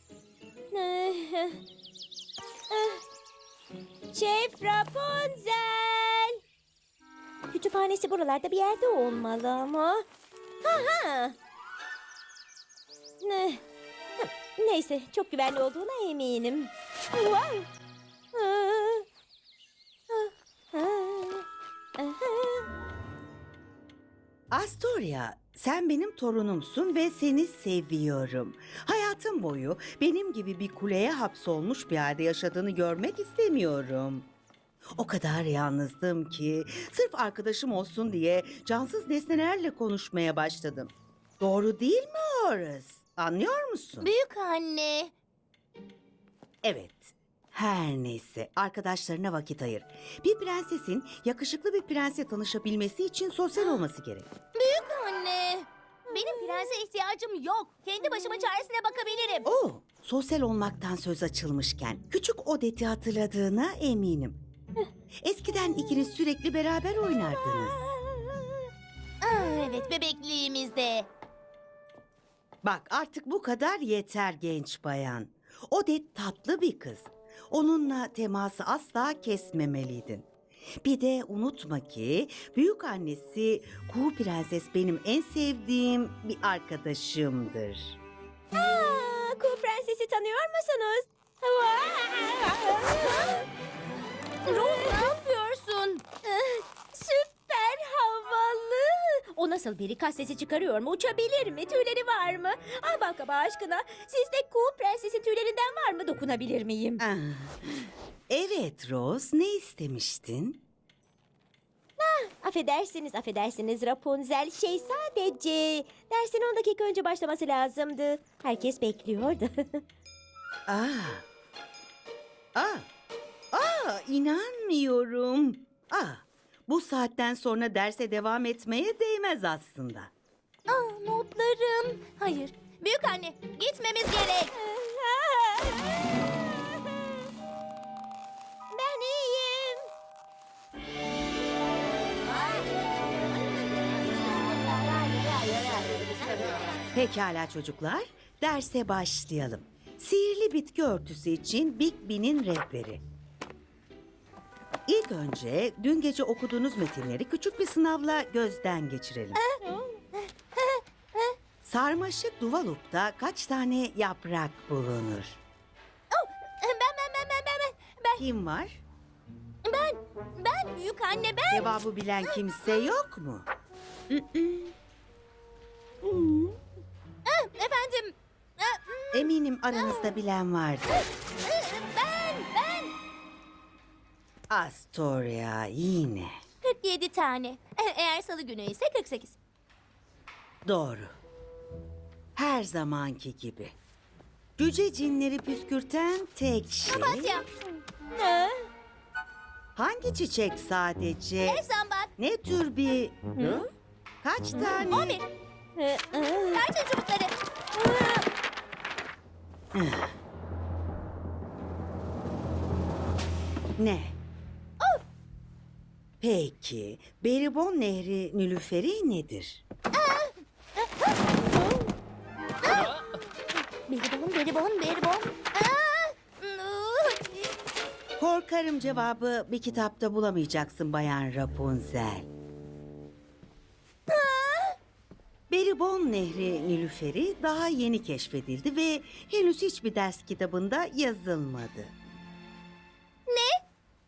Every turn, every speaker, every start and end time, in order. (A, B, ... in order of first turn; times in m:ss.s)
0:00.7-0:01.6 A
0:02.7-0:03.0 A
0:04.1-0:06.4 A
0:07.5-0:10.0 A
0:10.6-0:11.4 A
0:13.2-0:13.6 A
0:14.2-0:17.7 A
0:18.3-0:19.1 A
0:20.1-0:21.5 A
0:22.0-0:22.7 A
0:24.5-0:34.3 B
0:35.0-0:44.1 B
0:44.0-0:45.1 C
0:46.6-0:54.3 B
0:53.5-0:53.8 C
0:54.6-0:59.5 C
0:56.1-0:56.7 A
0:59.4-1:04.4 B
1:05.2-1:07.8 B
1:07.2-1:08.7 A
1:09.2-1:11.1 C
1:12.6-1:20.3 B
1:20.8-1:28.0 B
1:28.5-1:33.4 A
1:34.5-1:35.1 A
1:34.5-1:36.0 C
1:36.2-1:47.0 A
1:47.0-1:50.6 B
1:52.0-1:59.8 A
2:00.7-2:01.2 B
2:02.6-2:02.9 B
2:03.5-2:10.1 B
2:10.7-2:14.5 C
2:14.5-2:17.1 A
2:18.7-2:19.9 A
2:26.9-2:33.0 B
2:34.9-2:39.4 B
2:39.4-2:39.6 C
2:39.6-2:40.0 A
2:40.1-2:41.4 C
2:41.6-2:45.4 B
2:46.1-2:48.2 C
2:48.2-2:48.8 B
2:49.6-2:52.9 C
2:51.5-2:53.5 B
2:54.1-2:54.7 C
2:56.0-2:56.6 A
2:57.3-3:00.2 C
2:59.1-3:01.1 B
3:01.4-3:02.9 C
3:04.5-3:06.4 B
3:06.6-3:09.4 C
3:10.6-3:11.1 B
3:12.4-3:13.8 B
3:14.6-3:17.3 B
3:16.9-3:17.5 C
3:18.2-3:18.7 A
3:19.8-3:21.6 B
3:21.4-3:22.1 C
3:22.2-3:23.2 B
3:23.4-3:23.7 A
3:24.2-3:25.2 B
3:24.5-3:24.9 A
3:24.9-3:25.3 C
3:25.8-3:26.6 A
3:26.5-3:27.4 C
3:27.8-3:28.2 A
3:29.7-3:30.1 B
3:33.8-3:34.2 B
3:36.2-3:39.6 B
3:39.9-3:41.8 C
3:42.6-3:43.0 C
3:43.9-3:47.5 C
3:48.2-3:52.3 B
3:54.1-3:54.8 C
3:55.5-4:01.9 B
4:03.3-4:03.6 C